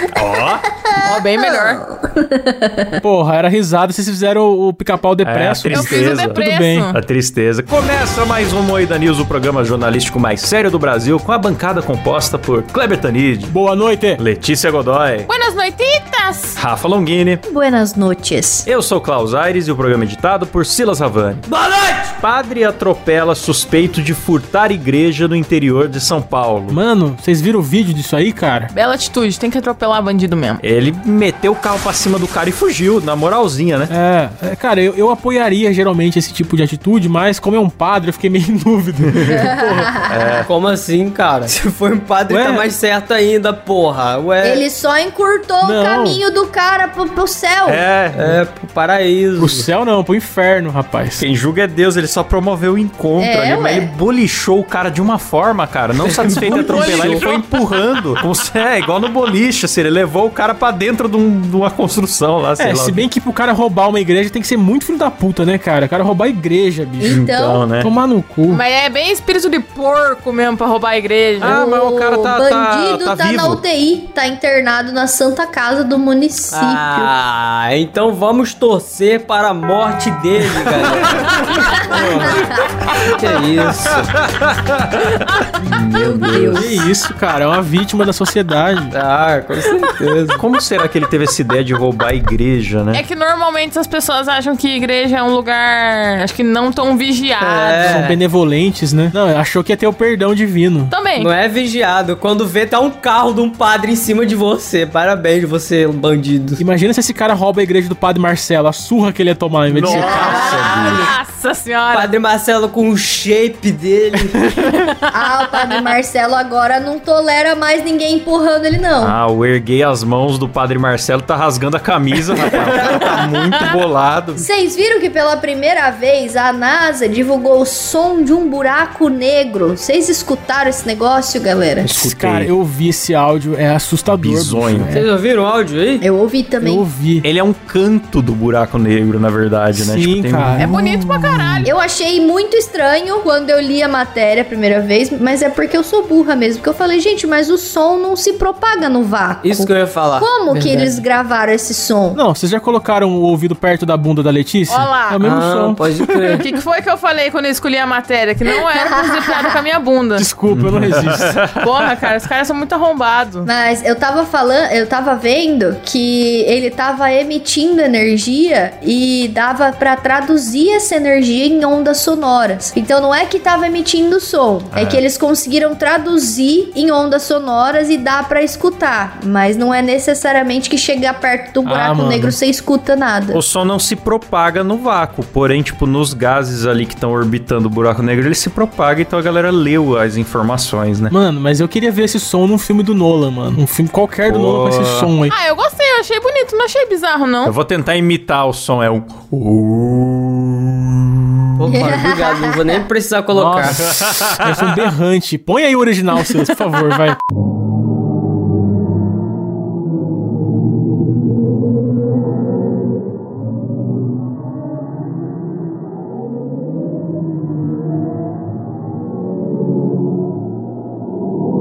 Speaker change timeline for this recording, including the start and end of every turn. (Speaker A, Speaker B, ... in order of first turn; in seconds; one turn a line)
Speaker A: 0.1-0.6
Speaker B: 0.9-2.9
Speaker C: 1.0-1.8
Speaker D: 3.0-6.9
Speaker A: 5.2-13.6
Speaker C: 5.7-7.0
Speaker D: 13.5-14.2
Speaker A: 14.2-15.3
Speaker C: 15.3-16.6
Speaker A: 16.6-17.4
Speaker B: 17.5-18.7
Speaker A: 18.7-21.4
Speaker E: 21.5-22.1
Speaker A: 22.2-26.8
Speaker D: 26.7-28.7
Speaker C: 28.7-30.6
Speaker A: 30.6-33.9
Speaker D: 33.9-40.0
Speaker B: 39.4-39.8
Speaker A: 40.0-40.5
Speaker E: 40.5-44.6
Speaker D: 42.3-42.7
Speaker B: 44.4-47.9
Speaker D: 45.6-46.2
Speaker A: 47.7-48.4
Speaker E: 48.1-49.7
Speaker D: 49.4-51.2
Speaker A: 51.2-63.0
Speaker B: 53.2-53.9
Speaker E: 56.0-57.2
Speaker C: 56.5-57.4
Speaker D: 62.5-68.6
Speaker B: 67.0-67.7
Speaker A: 67.0-67.9
Speaker C: 68.5-71.6
Speaker A: 71.4-73.6
Speaker B: 71.4-77.1
Speaker E: 76.5-81.2
Speaker B: 81.7-82.7
Speaker D: 81.9-82.4
Speaker E: 83.2-84.0
Speaker A: 83.8-85.1
Speaker A: 85.6-86.6
Speaker B: 85.7-86.9
Speaker E: 86.3-86.7
Speaker D: 86.5-88.9
Speaker E: 88.9-90.4
Speaker A: 90.4-93.0
Speaker C: 92.9-98.0
Speaker E: 97.4-98.2
Speaker D: 97.8-100.9
Speaker C: 100.9-101.3
Speaker E: 101.2-106.6
Speaker D: 106.6-110.5
Speaker A: 109.7-111.1
Speaker B: 109.9-110.9
Speaker E: 110.3-111.0
Speaker C: 110.3-112.1
Speaker E: 111.9-114.3
Speaker B: 115.1-119.1
Speaker A: 119.0-124.5
Speaker C: 123.0-123.6
Speaker B: 124.4-131.9
Speaker A: 131.8-132.5
Speaker D: 131.9-135.1
Speaker A: 134.1-134.9
Speaker E: 134.9-136.0
Speaker B: 136.0-136.8
Speaker D: 136.6-137.3
Speaker A: 137.2-140.9
Speaker D: 139.7-140.7
Speaker C: 140.6-141.7
Speaker B: 141.6-152.2
Speaker E: 149.4-151.0
Speaker D: 152.1-156.2
Speaker C: 154.7-155.2
Speaker E: 155.2-156.4
Speaker C: 156.3-160.3
Speaker B: 158.8-159.6
Speaker D: 160.1-161.4
Speaker A: 160.5-161.9
Speaker C: 161.6-163.5
Speaker B: 163.4-183.4
Speaker A: 174.7-175.0
Speaker D: 181.6-182.4
Speaker A: 183.3-191.1
Speaker D: 191.1-195.3
Speaker A: 194.2-195.1
Speaker C: 195.3-197.6
Speaker A: 197.4-201.0
Speaker E: 201.6-203.8
Speaker B: 201.7-202.8
Speaker D: 203.3-207.2
Speaker A: 203.7-204.8